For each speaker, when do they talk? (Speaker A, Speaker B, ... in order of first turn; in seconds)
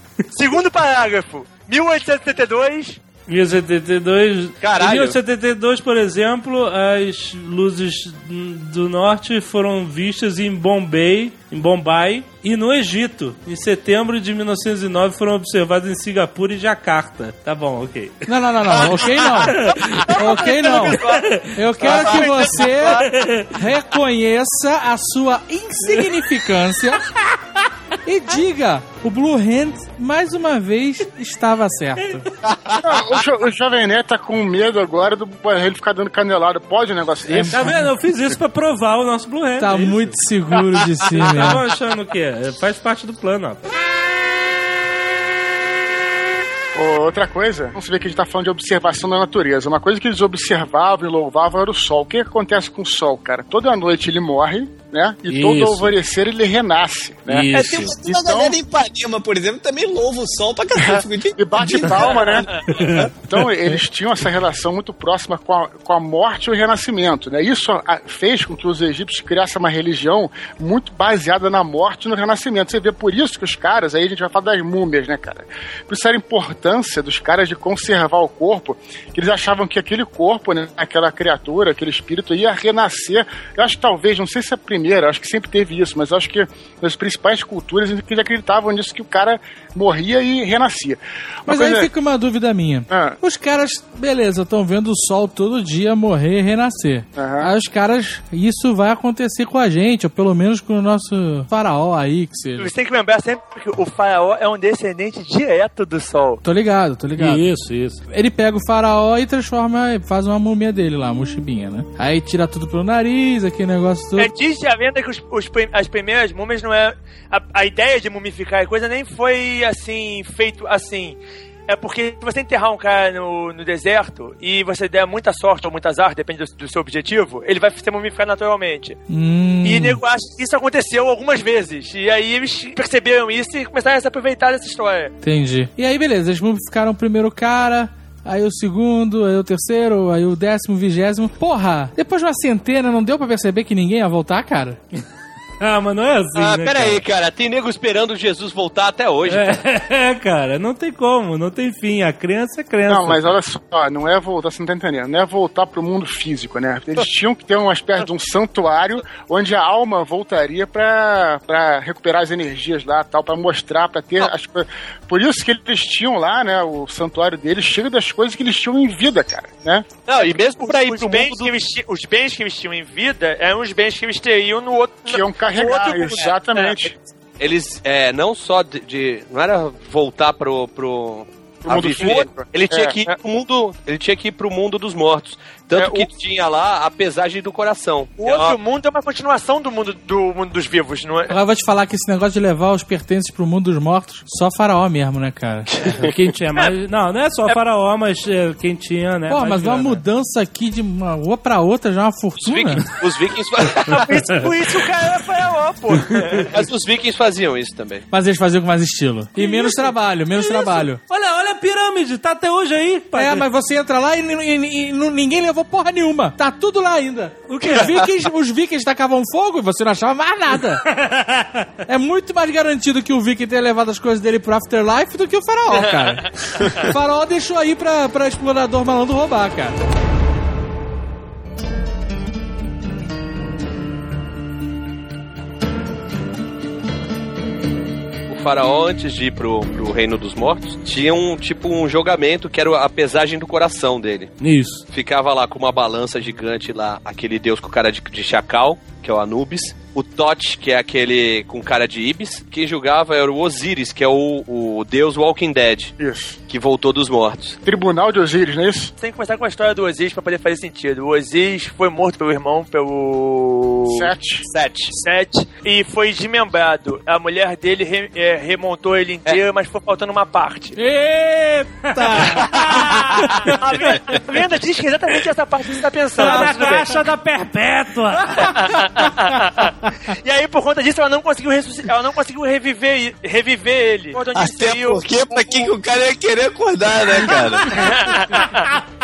Speaker A: 0.3-3.0, 19.9-23.1, 102.6-106.4, 114.2-129.0, 129.6-135.1, 170.1-176.9, 185.7-186.1, 188.2-191.3, 203.7-206.6, 209.4-209.8, 217.6-217.9, 225.8-226.8, 259.0-264.1, 264.9-270.8, 272.7-277.0, 278.4-285.7, 287.6-288.7
Speaker B: 3.3-23.5, 37.5-40.2, 41.2-43.7, 55.3-55.9, 57.3-58.0, 62.7-63.1, 107.2-108.0, 145.6-147.0, 149.3-153.3, 195.9-200.0, 211.0-213.4, 220.9-221.7, 244.4-244.8, 271.8-273.5, 276.2-278.9, 287.8-288.5
Speaker C: 4.6-5.2, 32.4-33.0, 146.3-149.6, 170.1-171.5, 177.4-188.6, 202.4-204.4, 206.4-208.1, 238.3-244.3, 244.9-255.9, 256.5-257.6, 264.4-265.0
Speaker D: 18.3-21.0, 21.5-27.1, 28.1-32.3, 37.3-37.9, 39.6-41.6, 91.5-102.7, 106.4-107.4, 108.1-114.3, 129.1-130.0, 135.2-144.8, 191.3-195.7, 199.3-202.8, 208.1-211.0, 213.2-220.9, 221.9-229.8, 270.8-273.5
Speaker E: 32.8-38.4, 46.8-57.5, 58.0-58.6, 60.8-62.5, 63.2-91.9, 92.9-93.2, 97.2-97.5, 152.9-169.9, 175.1-177.0, 181.6-183.0, 256.0-256.4, 257.6-258.9, 263.9-264.5
Speaker F: 57.5-63.1, 284.3-288.1